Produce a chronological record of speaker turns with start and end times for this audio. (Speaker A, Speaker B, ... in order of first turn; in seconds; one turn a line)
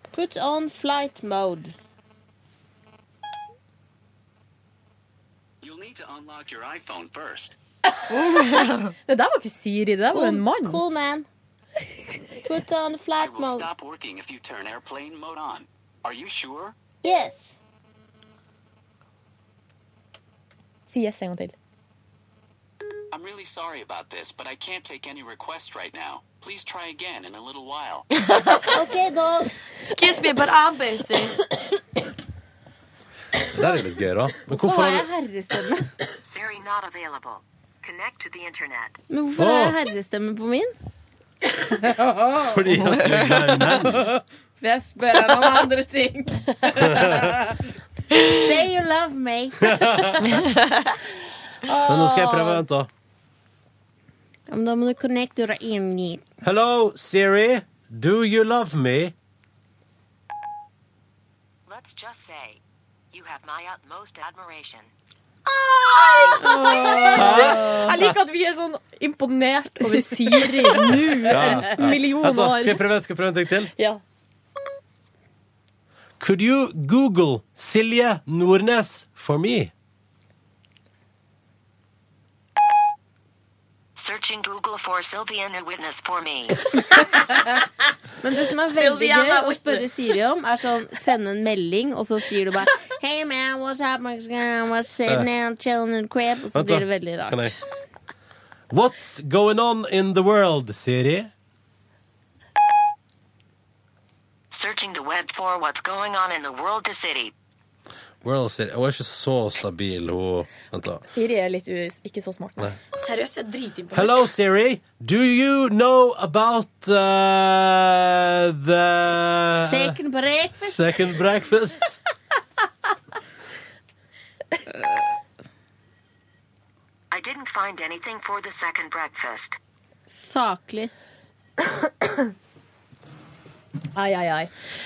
Speaker A: 0.1-1.7
Speaker B: 5.6-7.5
Speaker C: 7.9-10.8
Speaker A: 10.1-11.3
Speaker A: 12.4-13.7
Speaker B: 13.2-16.7
Speaker A: 17.0-17.6
Speaker C: 20.9-21.5
Speaker B: 23.1-28.1
Speaker D: 28.3-28.6
Speaker A: 28.7-29.5
Speaker D: 29.9-31.4
Speaker E: 33.5-35.1
Speaker A: 34.5-35.9
Speaker F: 36.2-39.0
Speaker A: 39.1-40.7
Speaker E: 39.4-39.8
Speaker E: 42.4-44.2
Speaker D: 43.0-43.6
Speaker A: 44.6-47.5
Speaker E: 46.9-47.2
Speaker A: 48.2-50.0
Speaker E: 49.7-50.2
Speaker C: 51.6-52.6
Speaker E: 51.9-52.9
Speaker A: 54.5-56.2
Speaker E: 56.4-59.1
Speaker F: 61.7-62.6
Speaker F: 63.1-64.9
Speaker C: 65.8-72.8
Speaker A: 66.4-68.0
Speaker E: 67.1-67.7
Speaker E: 71.3-73.7
Speaker C: 73.7-74.0
Speaker E: 76.2-79.7
Speaker F: 84.0-86.6
Speaker A: 88.2-97.5
Speaker D: 88.7-90.2
Speaker E: 96.5-97.5
Speaker E: 98.7-101.3
Speaker F: 104.5-107.3
Speaker E: 108.2-111.0
Speaker C: 111.0-112.7
Speaker D: 113.0-114.3
Speaker E: 113.9-120.0
Speaker A: 119.6-120.8
Speaker E: 120.6-121.9
Speaker F: 127.1-129.6
Speaker A: 130.1-130.9
Speaker C: 133.9-134.5